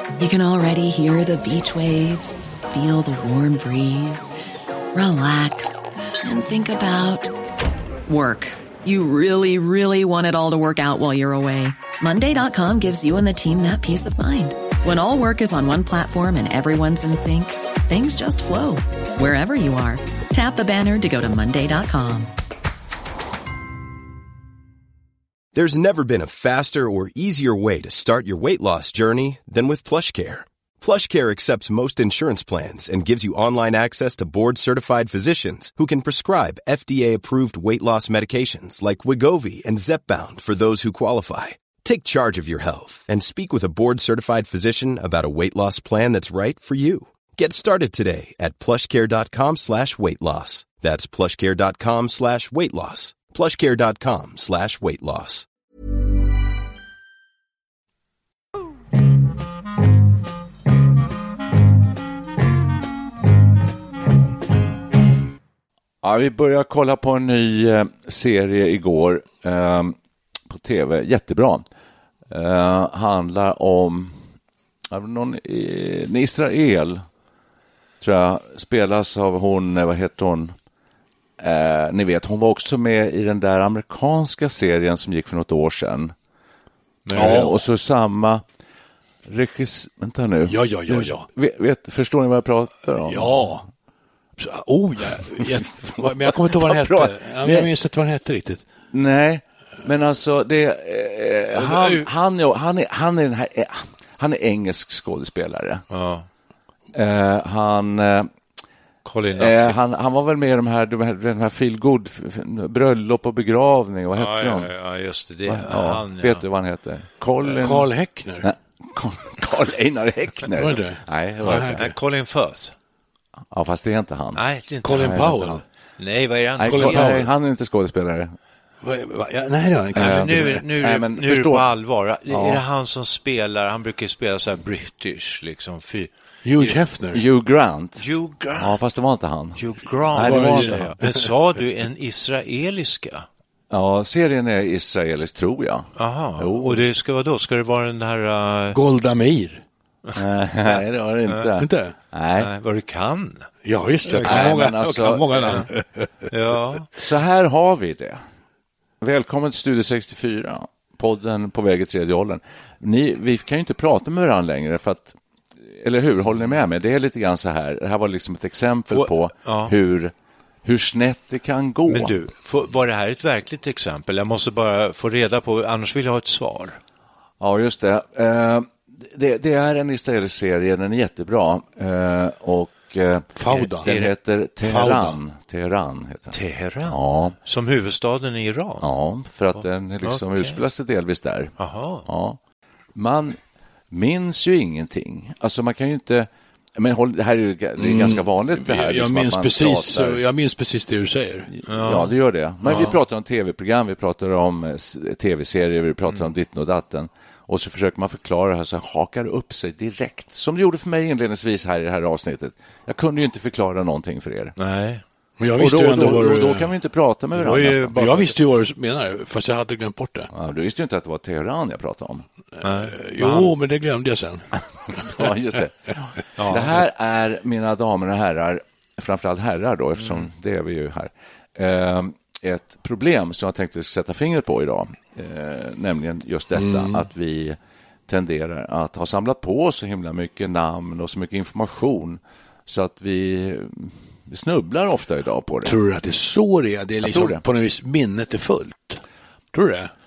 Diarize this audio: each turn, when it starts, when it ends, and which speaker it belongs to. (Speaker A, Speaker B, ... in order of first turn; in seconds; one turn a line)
Speaker A: 0.2-4.3
Speaker A: 4.9-7.3
Speaker A: 8.1-22.3
Speaker B: 25.5-55.5
Speaker C: 66.0-70.0
Speaker C: 70.5-71.6
Speaker C: 72.3-74.2
Speaker C: 74.9-77.0
Speaker C: 78.0-80.5
Speaker C: 81.4-86.1
Speaker D: 87.0-87.5
Speaker C: 87.1-88.4
Speaker C: 89.3-93.5
Speaker D: 90.4-91.3
Speaker D: 93.0-93.6
Speaker D: 94.4-98.6
Speaker C: 95.2-97.7
Speaker C: 98.9-105.8
Speaker D: 101.5-102.1
Speaker E: 105.9-106.3
Speaker C: 106.9-108.3
Speaker E: 109.0-109.8
Speaker C: 109.3-114.7
Speaker E: 114.1-116.4
Speaker C: 115.5-117.9
Speaker D: 117.4-118.5
Speaker C: 118.4-121.9
Speaker D: 120.5-121.0
Speaker E: 121.4-122.7
Speaker C: 123.5-124.4
Speaker E: 124.3-127.2
Speaker D: 124.8-125.6
Speaker C: 125.0-125.3
Speaker C: 126.6-128.3
Speaker D: 126.6-127.3
Speaker D: 128.8-130.6
Speaker C: 129.9-131.7
Speaker E: 129.9-136.7
Speaker C: 132.3-132.6
Speaker D: 136.4-137.2
Speaker C: 137.1-140.9
Speaker E: 138.0-138.8
Speaker E: 139.6-143.3
Speaker D: 140.1-141.2
Speaker C: 143.7-146.9
Speaker E: 146.0-148.8
Speaker D: 148.7-149.6
Speaker C: 150.2-152.5
Speaker D: 151.6-151.9
Speaker E: 152.4-153.5
Speaker D: 153.6-156.3
Speaker E: 154.1-154.5
Speaker C: 154.2-155.7
Speaker E: 156.3-156.9
Speaker C: 157.0-158.2
Speaker C: 159.0-165.2
Speaker C: 165.7-170.1
Speaker E: 168.9-169.7
Speaker C: 170.6-172.2
Speaker E: 171.9-176.8
Speaker C: 177.4-187.4
Speaker D: 183.3-183.9
Speaker E: 183.5-184.1
Speaker D: 184.6-185.2
Speaker E: 186.3-188.8
Speaker C: 188.8-192.4
Speaker E: 189.6-190.6
Speaker E: 191.6-192.1
Speaker C: 192.9-193.4
Speaker C: 193.9-200.2
Speaker D: 197.8-201.5
Speaker C: 201.5-214.5
Speaker E: 201.7-202.1
Speaker D: 202.7-202.9
Speaker E: 214.6-215.0
Speaker D: 215.4-216.7
Speaker C: 215.6-218.3
Speaker D: 217.4-220.3
Speaker E: 217.5-218.2
Speaker C: 220.3-222.2
Speaker D: 222.6-225.3
Speaker E: 222.6-223.5
Speaker C: 224.9-237.6
Speaker D: 236.5-237.0
Speaker C: 238.1-245.8
Speaker D: 245.6-249.0
Speaker C: 247.0-247.4
Speaker D: 249.5-249.9